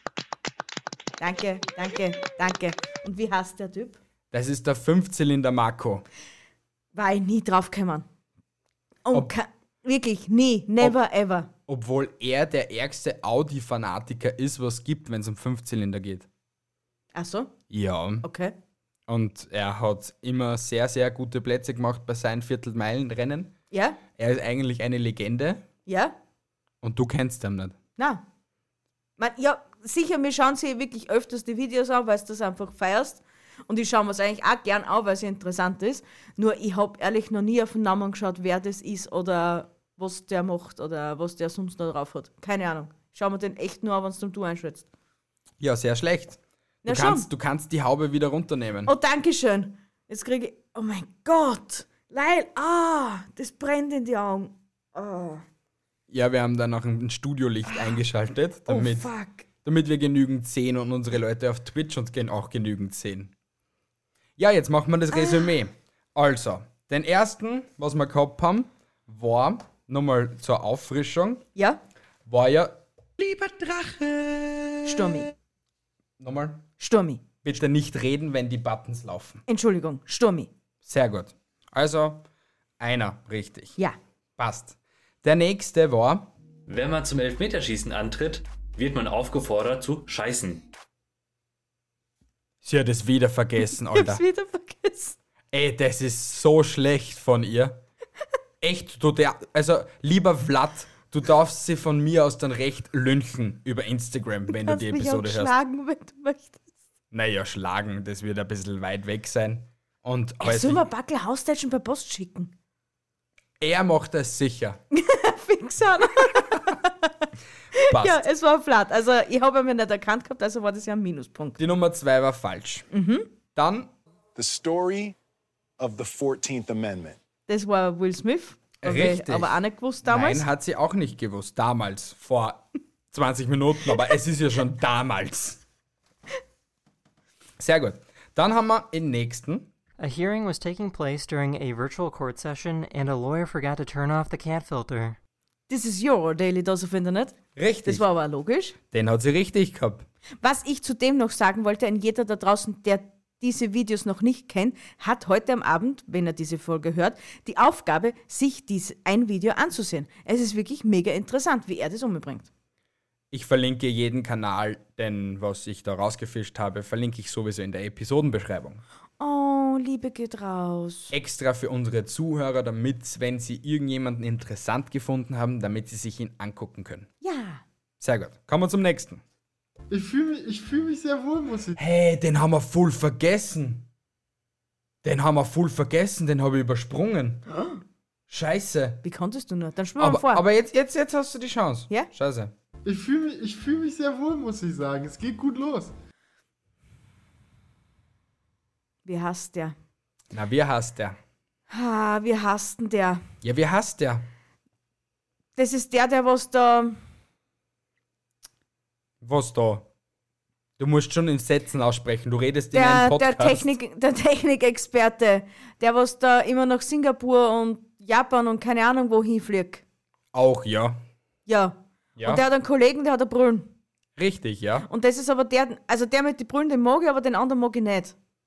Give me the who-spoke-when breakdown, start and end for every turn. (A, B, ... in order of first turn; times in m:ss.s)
0:01.2-0:04.0 A
0:04.3-0:06.0 B
0:07.0-0:08.1 A
0:09.0-0:11.5 A
0:11.7-0:16.3 B
0:17.1-0:17.5 A
0:17.7-0:18.3 B
0:18.2-0:18.5 A
0:19.1-0:23.5 B
0:23.7-0:24.0 A
0:24.2-0:25.6 B
0:25.9-0:26.2 A
0:26.8-0:27.8 B
0:28.0-0:28.2 A
0:29.2-0:44.9 A
0:45.6-0:48.9 B
0:46.8-0:47.3 A
0:48.9-0:55.4 A
0:56.1-0:59.1 B
0:58.7-0:59.5 A
0:59.6-1:03.3 B
1:04.4-1:11.4 B
1:05.2-1:05.5 A
1:12.3-1:15.2 B
1:14.8-1:15.3 A
1:16.2-1:16.7 B
1:16.8-1:17.2 A
1:17.4-1:19.4 B
1:19.5-1:20.5 A
1:20.8-1:22.3 B
1:22.8-1:23.8 B
1:24.4-1:26.3 B
1:26.7-1:30.6 C
1:32.6-1:34.2 B
1:33.8-1:35.2 A
1:35.5-1:37.8 B
1:38.6-1:45.5 B
1:44.5-1:46.6 A
1:47.1-1:50.9 B
1:50.4-1:52.5 A
1:53.6-1:54.8 B
1:54.9-2:01.6 A
1:57.9-1:58.3 B
2:01.6-2:02.9 B
2:02.9-2:03.3 A
2:03.6-2:03.9 B
2:04.4-2:05.2 D
2:05.8-2:07.2 D
2:07.5-2:10.5 A
2:08.8-2:15.6 B
2:17.6-2:19.7 B
2:20.0-2:25.2 E
2:25.7-2:28.8 A
2:27.6-2:28.0 B
2:28.9-2:30.1 B
2:30.4-2:42.5 A
2:43.3-2:48.8 B
2:49.2-2:51.1 A
2:51.1-2:57.1 B
2:57.2-2:57.6 A
2:58.0-2:59.2 B
2:59.9-3:01.8 F
3:01.8-3:03.9 B
3:05.0-3:07.4 B
3:08.3-3:09.0 B
3:09.0-3:10.4 A
3:10.0-3:12.5 B
3:12.8-3:15.9 F
3:19.0-3:19.8 A
3:20.3-3:21.2 B
3:21.7-3:23.2 A
3:23.4-3:24.3 B
3:25.6-3:27.0 A
3:29.2-3:29.9 B
3:30.8-3:33.7 B
3:32.7-3:39.8 A
3:40.3-3:41.0 B
3:41.5-3:43.7 A
3:42.2-3:42.4 B
3:44.2-3:44.9 B
3:44.9-3:48.2 A